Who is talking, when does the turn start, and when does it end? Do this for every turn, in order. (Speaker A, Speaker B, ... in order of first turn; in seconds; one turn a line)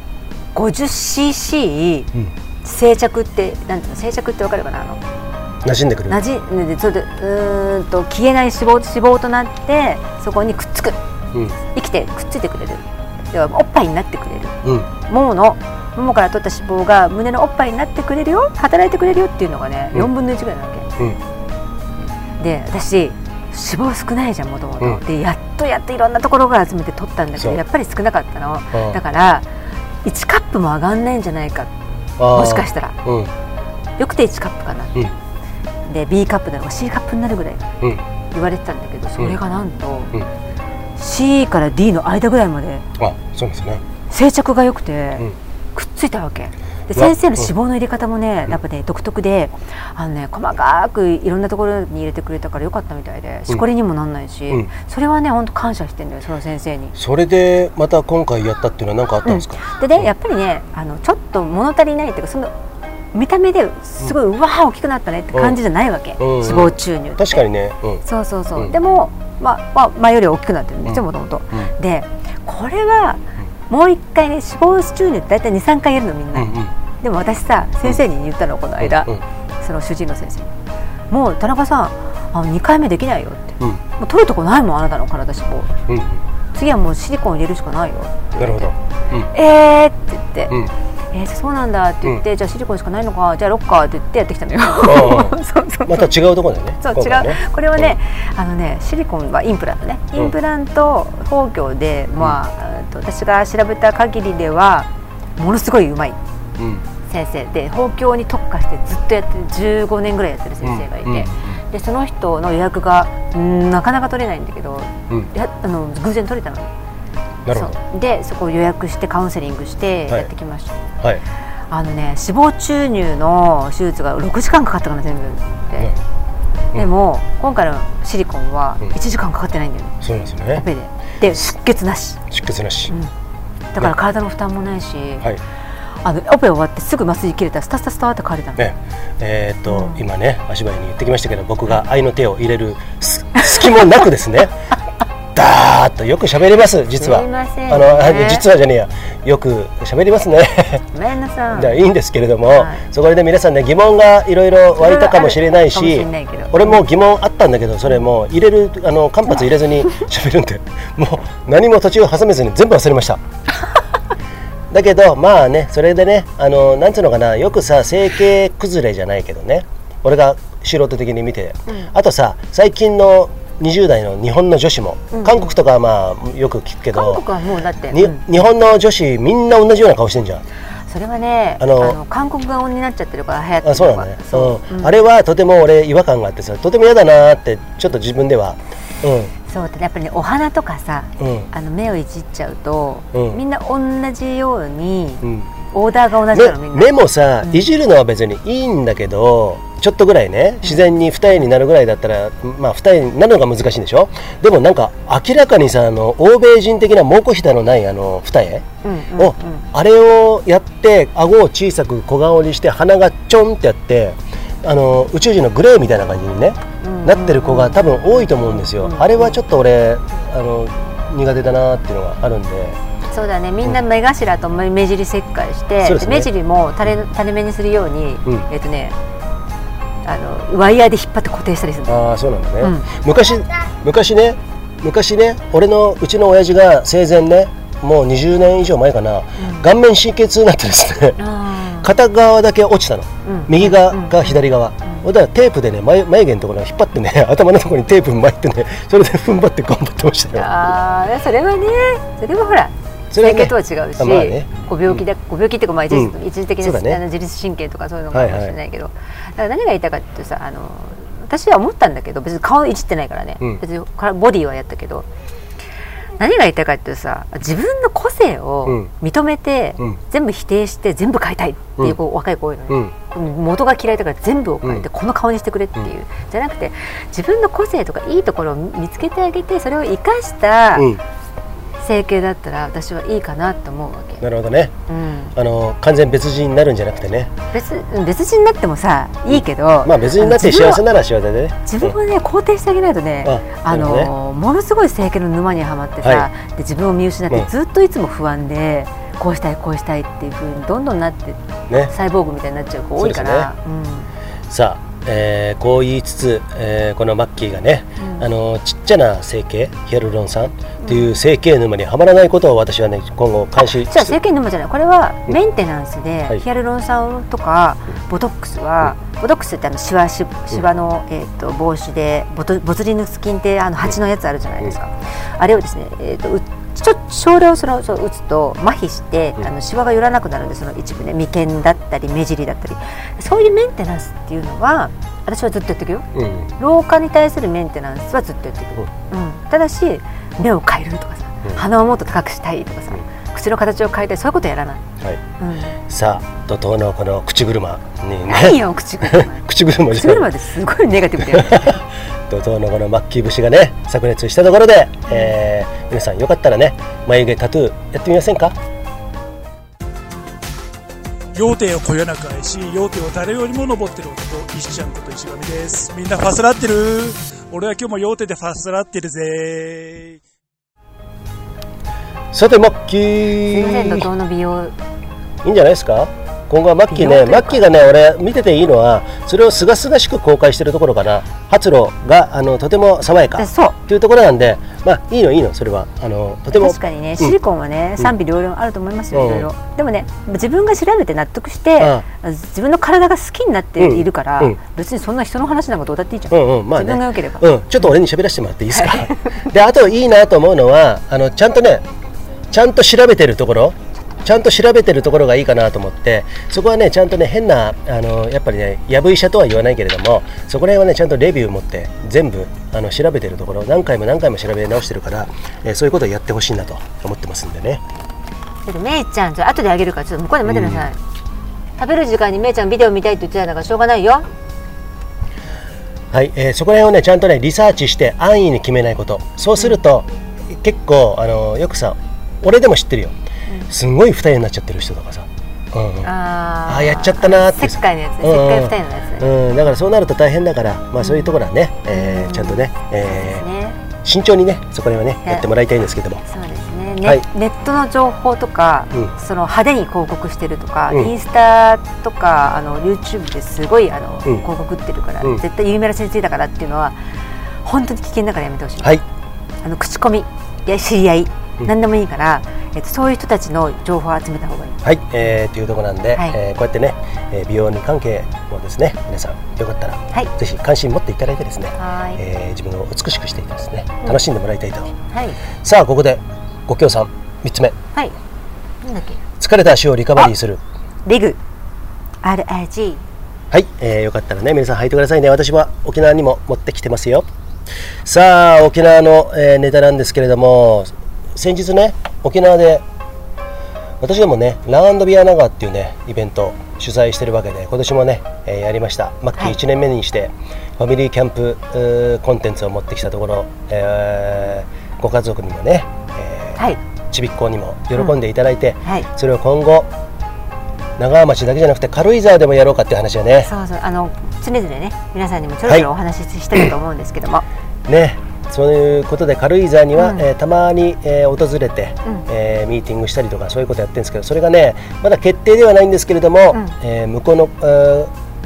Speaker A: 0.5-2.1
Speaker A: 2.6-5.0
Speaker B: 5.6-6.2
Speaker A: 6.1-11.0
Speaker A: 11.7-20.9
Speaker B: 14.6-14.9
Speaker A: 22.4-29.4
Speaker B: 28.7-29.0
Speaker A: 30.0-31.7
Speaker B: 32.2-33.3
Speaker A: 32.3-33.0
Speaker A: 34.0-35.1
Speaker A: 35.9-37.7
Speaker A: 38.3-40.1
Speaker A: 41.0-42.8
Speaker B: 43.0-43.8
Speaker A: 44.1-56.9
Speaker B: 46.9-47.5
Speaker B: 57.0-60.1
Speaker A: 59.2-62.5
Speaker A: 63.1-67.4
Speaker B: 66.2-68.0
Speaker A: 68.0-80.5
Speaker B: 76.3-76.7
Speaker B: 78.8-79.2
Speaker A: 81.1-85.7
Speaker B: 85.9-86.2
Speaker A: 86.5-88.7
Speaker B: 88.4-89.3
Speaker A: 89.3-90.5
Speaker A: 91.1-96.1
Speaker B: 94.8-97.9
Speaker A: 96.8-106.2
Speaker B: 106.6-106.8
Speaker A: 107.0-116.7
Speaker B: 110.6-111.5
Speaker B: 117.5-117.7
Speaker A: 117.5-120.8
Speaker A: 121.7-125.9
Speaker A: 126.7-130.0
Speaker B: 130.0-130.6
Speaker A: 130.5-132.2
Speaker B: 132.3-132.9
Speaker A: 133.7-135.2
Speaker A: 136.0-138.6
Speaker B: 138.6-144.6
Speaker A: 139.7-140.0
Speaker B: 145.3-150.8
Speaker A: 147.0-148.5
Speaker A: 150.9-151.8
Speaker B: 151.5-163.2
Speaker A: 152.5-152.8
Speaker A: 154.8-156.8
Speaker B: 164.7-177.2
Speaker A: 175.1-175.5
Speaker A: 176.9-178.2
Speaker B: 177.9-180.4
Speaker A: 180.9-184.9
Speaker B: 181.6-182.0
Speaker B: 183.6-189.3
Speaker A: 189.5-196.9
Speaker B: 191.2-191.5
Speaker B: 193.1-193.4
Speaker B: 195.2-195.5
Speaker B: 196.3-222.8
Speaker A: 208.8-209.7
Speaker A: 216.8-219.4
Speaker A: 223.1-228.9
Speaker B: 225.8-226.3
Speaker A: 230.0-232.0
Speaker B: 231.9-241.2
Speaker A: 232.6-232.9
Speaker A: 239.4-239.7
Speaker A: 241.2-241.9
Speaker B: 241.8-250.5
Speaker A: 243.2-245.0
Speaker A: 250.3-265.1
Speaker B: 253.1-255.0
Speaker B: 255.9-257.0
Speaker B: 258.1-258.6
Speaker A: 266.2-280.9
Speaker A: 281.8-284.2
Speaker B: 284.2-284.7
Speaker A: 284.9-285.3
Speaker B: 285.4-287.3
Speaker A: 287.5-290.8
Speaker B: 289.3-292.0
Speaker A: 291.6-304.1
Speaker B: 293.2-294.1
Speaker B: 296.0-296.3
Speaker B: 303.0-303.5
Speaker B: 304.5-314.1
Speaker A: 308.0-308.2
Speaker A: 310.8-311.1
Speaker A: 313.6-345.8
Speaker B: 336.1-336.5
Speaker B: 345.9-350.3
Speaker A: 348.3-351.8
Speaker B: 351.2-358.6
Speaker A: 355.1-355.3
Speaker C: 361.3-370.2
Speaker B: 372.3-374.1
Speaker A: 373.4-374.7
Speaker B: 375.4-387.3
Speaker A: 376.9-377.6
Speaker A: 383.3-383.8
Speaker A: 386.5-397.9
Speaker B: 389.1-389.5
Speaker B: 391.8-392.0
Speaker B: 393.8-394.6
Speaker B: 396.3-401.8
Speaker A: 398.7-399.5
Speaker B: 402.5-417.8
Speaker A: 418.6-421.0
Speaker B: 420.4-420.8
Speaker A: 421.8-424.3
Speaker B: 426.1-433.1
Speaker B: 433.7-436.1
Speaker A: 436.0-439.3
Speaker B: 436.6-443.4
Speaker A: 441.0-443.8
Speaker B: 444.0-446.2
Speaker A: 446.2-456.9
Speaker A: 457.6-459.0
Speaker A: 459.6-464.8
Speaker B: 464.8-474.9
Speaker A: 471.8-472.2
Speaker A: 475.1-475.4
Speaker B: 475.6-477.8
Speaker A: 478.8-479.2
Speaker B: 479.4-480.6
Speaker A: 481.1-481.4
Speaker A: 482.2-483.0
Speaker B: 483.5-487.2
Speaker B: 488.0-492.8
Speaker B: 494.0-509.9
Speaker B: 511.0-513.5
Speaker A: 513.4-517.4
Speaker B: 517.9-528.1
Speaker A: 520.0-520.2